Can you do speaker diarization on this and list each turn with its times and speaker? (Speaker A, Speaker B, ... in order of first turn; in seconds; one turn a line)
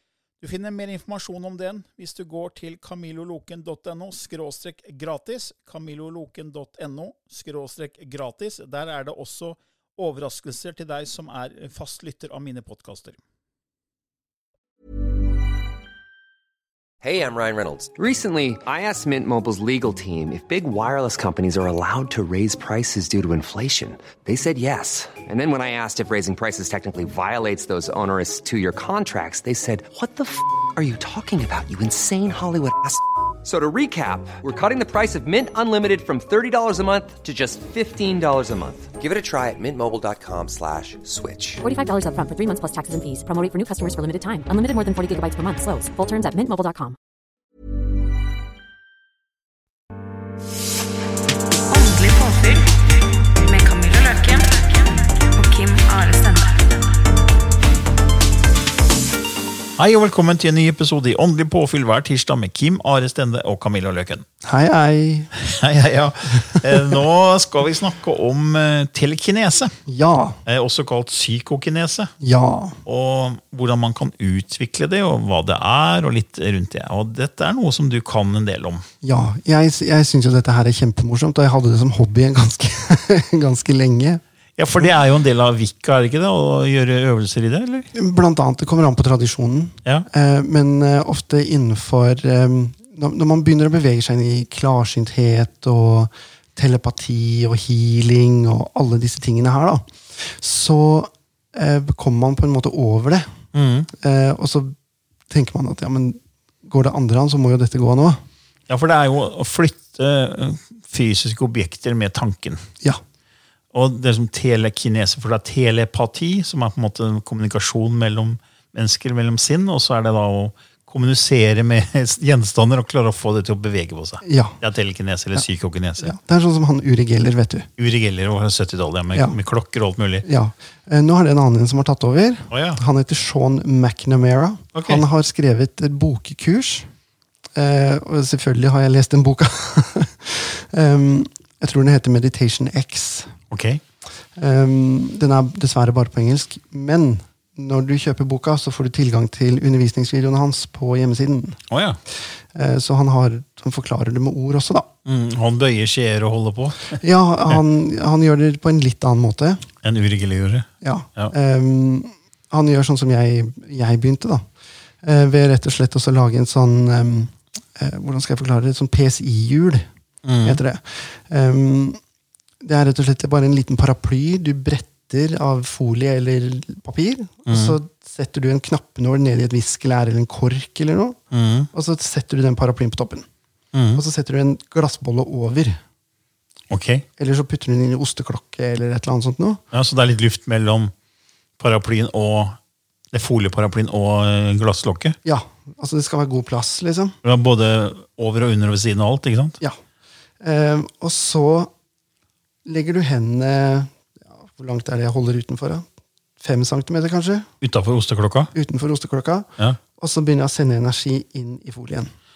Speaker A: 0.4-13.2
Speaker B: 17.0-41.6
Speaker C: 41.6-47.0
Speaker D: 51.7-52.7
Speaker D: 53.4-56.7
Speaker A: 59.8-64.2
Speaker E: 64.4-65.3
Speaker A: 65.4-69.8
Speaker E: 69.9-70.4
Speaker A: 70.5-72.1
Speaker E: 72.2-72.8
Speaker A: 72.8-78.8
Speaker E: 79.0-84.2
Speaker A: 84.6-87.9
Speaker E: 87.9-103.3
Speaker A: 103.5-103.9
Speaker E: 103.9-104.7
Speaker E: 105.3-108.2
Speaker A: 108.7-112.7
Speaker A: 113.7-126.2
Speaker E: 124.2-124.6
Speaker E: 126.0-127.7
Speaker A: 127.8-130.3
Speaker E: 130.2-136.9
Speaker A: 132.5-132.8
Speaker A: 134.8-135.0
Speaker E: 137.6-143.3
Speaker A: 143.5-143.8
Speaker E: 144.4-151.6
Speaker A: 151.7-152.0
Speaker E: 152.1-154.9
Speaker A: 155.1-157.6
Speaker E: 157.0-159.7
Speaker A: 159.8-161.3
Speaker E: 160.8-164.5
Speaker E: 165.0-169.9
Speaker A: 170.2-170.6
Speaker E: 170.4-172.0
Speaker E: 172.6-181.2
Speaker A: 177.5-177.8
Speaker A: 181.3-181.7
Speaker E: 181.7-183.3
Speaker A: 183.7-184.0
Speaker E: 183.9-185.8
Speaker A: 186.7-187.1
Speaker E: 187.2-189.6
Speaker A: 189.7-190.9
Speaker A: 191.6-192.6
Speaker A: 193.1-195.2
Speaker E: 195.2-197.2
Speaker A: 197.2-199.6
Speaker E: 200.4-201.7
Speaker E: 202.7-205.9
Speaker E: 206.4-207.5
Speaker A: 207.6-208.5
Speaker E: 208.5-212.1